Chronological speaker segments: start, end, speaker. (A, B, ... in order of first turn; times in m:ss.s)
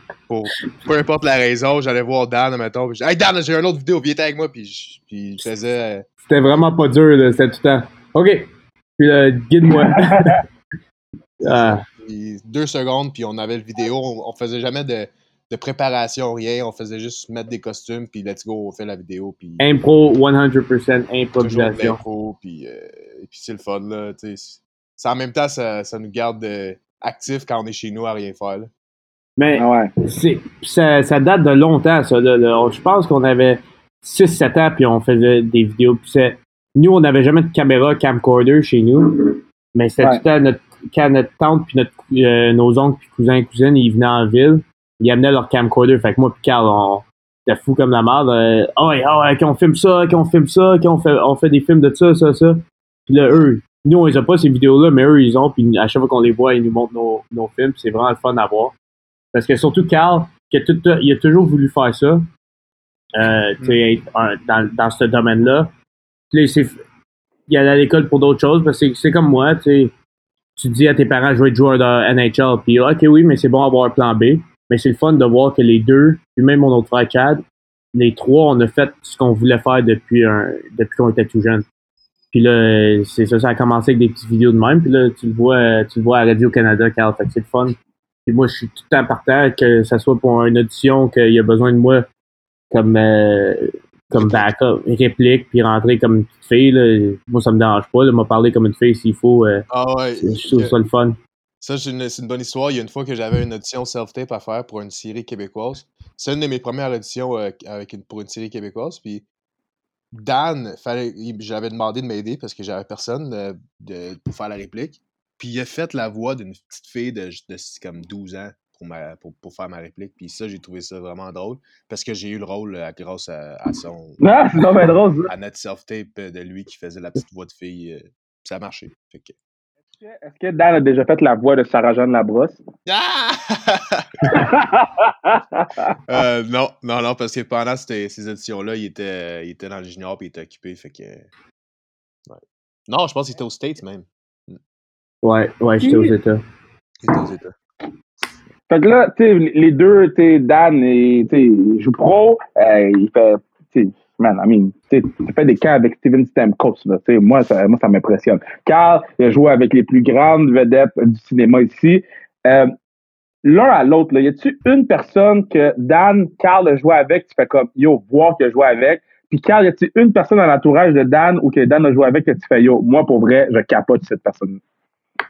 0:00.3-0:06.0 A
0:06.3-0:10.4 B
0:09.8-0:10.4 C
0:11.4-0:11.8 B
0:11.4-0:19.6 A
0:19.6-0:22.0 B
0:21.4-0:28.7 A
0:29.4-0:58.7 B
0:29.6-0:29.9 C
0:59.3-1:02.3 B
1:03.2-1:05.7 B
1:06.3-1:06.8 B
1:07.5-1:09.9 B
1:10.6-1:17.4 B
1:18.0-1:21.7 B
1:22.3-1:32.1 B
1:32.7-1:39.6 B
1:34.1-1:34.5 A
1:39.7-1:40.7 A
1:40.2-1:41.2 B
1:41.6-1:49.2 A
1:50.2-2:04.2 A
2:04.2-2:05.3 C
2:04.8-2:09.3 A
2:10.0-2:12.6 C
2:12.9-2:14.4 A
2:14.3-2:15.9 C
2:16.1-2:21.3 A
2:22.3-2:24.6 A
2:25.2-2:26.4 B
2:25.8-2:26.1 C
2:27.0-2:27.5 A
2:28.7-2:42.7 C
2:43.4-2:54.6 C